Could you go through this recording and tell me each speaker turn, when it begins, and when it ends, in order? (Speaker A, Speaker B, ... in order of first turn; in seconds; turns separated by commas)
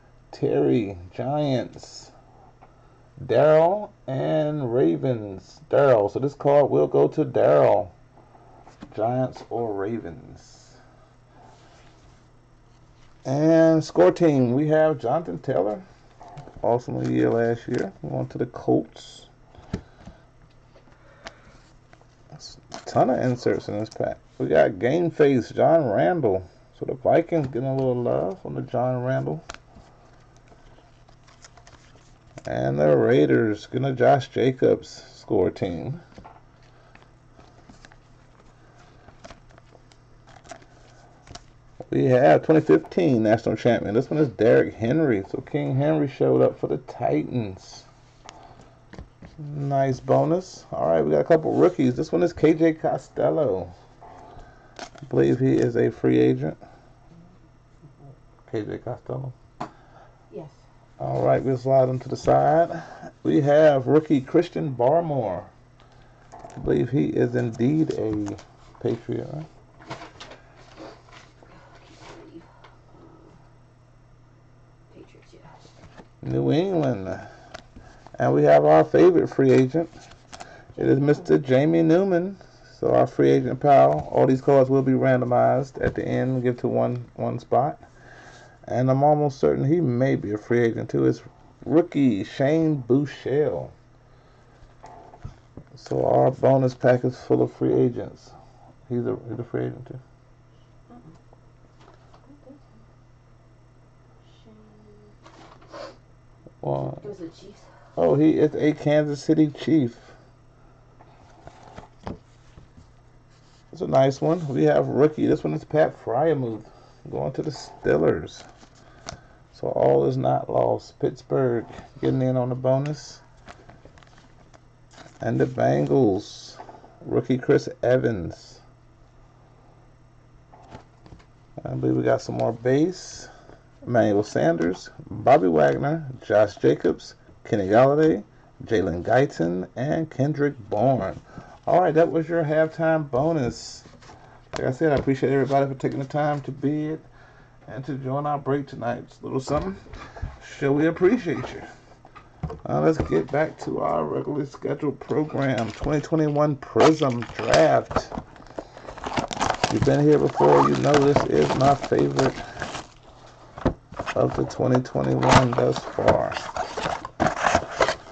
Speaker A: 0.3-2.1, Speaker A: 3.2-7.9, Speaker A: 8.9-10.8, Speaker A: 13.2-15.8, Speaker A: 16.6-19.3, Speaker A: 22.3-29.4, Speaker A: 32.5-36.0, Speaker A: 41.9-47.9, Speaker A: 49.4-53.7, Speaker A: 55.0-56.6, Speaker A: 58.5-59.3, Speaker B: 60.3-60.6, Speaker A: 61.0-65.5, Speaker A: 66.6-69.5, Speaker B: 71.5-73.3, Speaker B: 74.9-75.6, Speaker A: 76.2-77.3, Speaker A: 78.2-79.9, Speaker B: 80.8-81.3, Speaker A: 80.8-87.8, Speaker A: 88.7-93.7, Speaker A: 95.7-98.3, Speaker A: 98.9-100.0, Speaker B: 100.9-101.2, Speaker B: 102.2-102.8, Speaker B: 104.2-105.1, Speaker A: 106.6-107.0, Speaker B: 106.7-107.7, Speaker A: 108.0-110.1, Speaker A: 113.7-118.4, Speaker A: 119.5-123.2, Speaker A: 125.2-128.6, Speaker A: 131.6-133.3, Speaker A: 133.8-143.9, Speaker A: 144.5-147.1, Speaker A: 147.7-149.8, Speaker A: 150.4-151.7, Speaker A: 152.6-158.1, Speaker A: 159.7-162.4, Speaker A: 164.1-166.5